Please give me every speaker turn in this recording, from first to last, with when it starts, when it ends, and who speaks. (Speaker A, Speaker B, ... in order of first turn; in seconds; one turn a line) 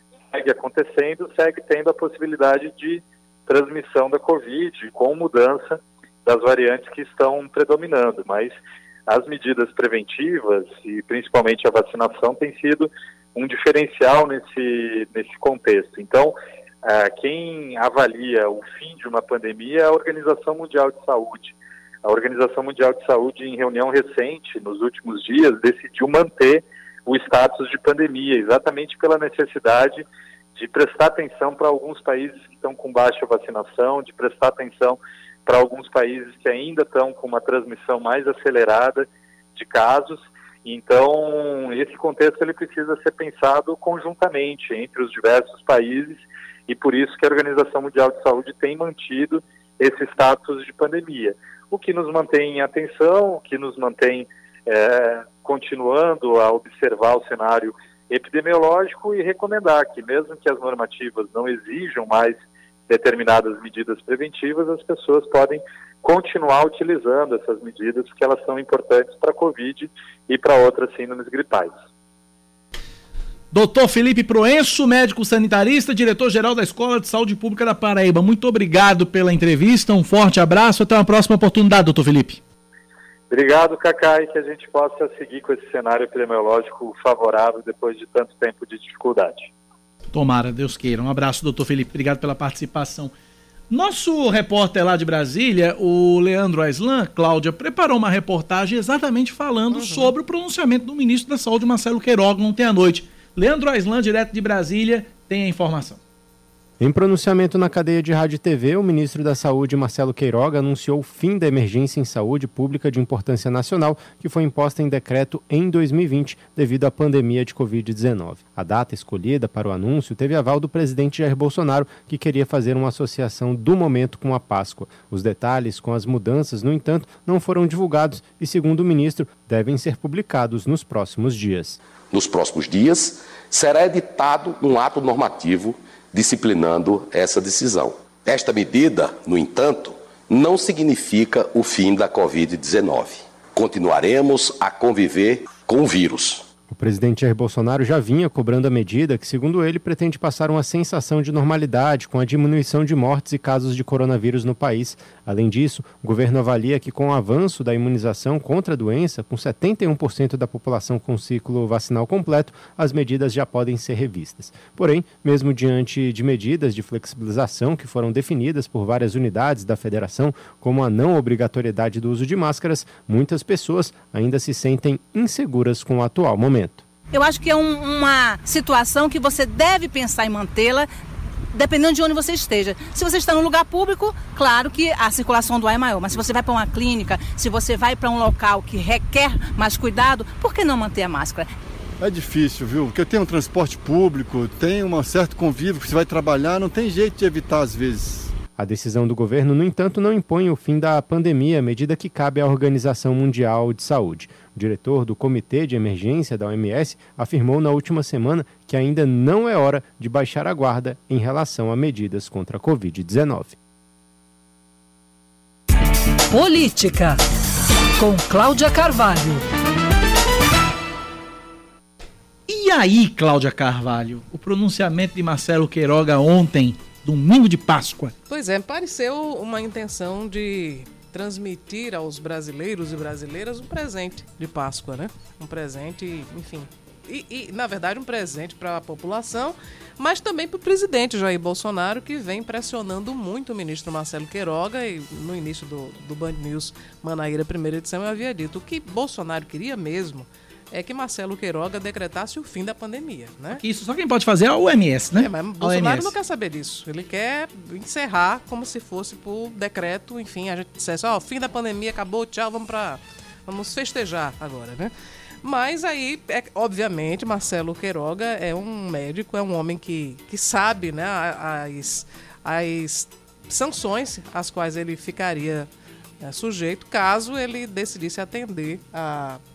Speaker A: 0.3-8.6
Speaker A: 9.1-71.7
Speaker B: 73.5-82.4
Speaker A: 83.3-89.5
Speaker B: 90.1-93.1
Speaker B: 93.7-106.0
Speaker C: 99.7-100.1
Speaker D: 106.8-131.8
Speaker E: 132.1-146.4
Speaker D: 146.7-176.8
Speaker F: 177.1-180.9
Speaker F: 181.5-191.5
Speaker G: 192.0-198.3
Speaker D: 198.6-213.6
Speaker H: 216.3-217.2
Speaker H: 218.0-219.5
Speaker B: 222.5-228.2
Speaker C: 228.3-253.6
Speaker B: 253.5-256.1
Speaker C: 255.2-264.9
Speaker C: 265.4-275.7
Speaker C: 276.2-279.4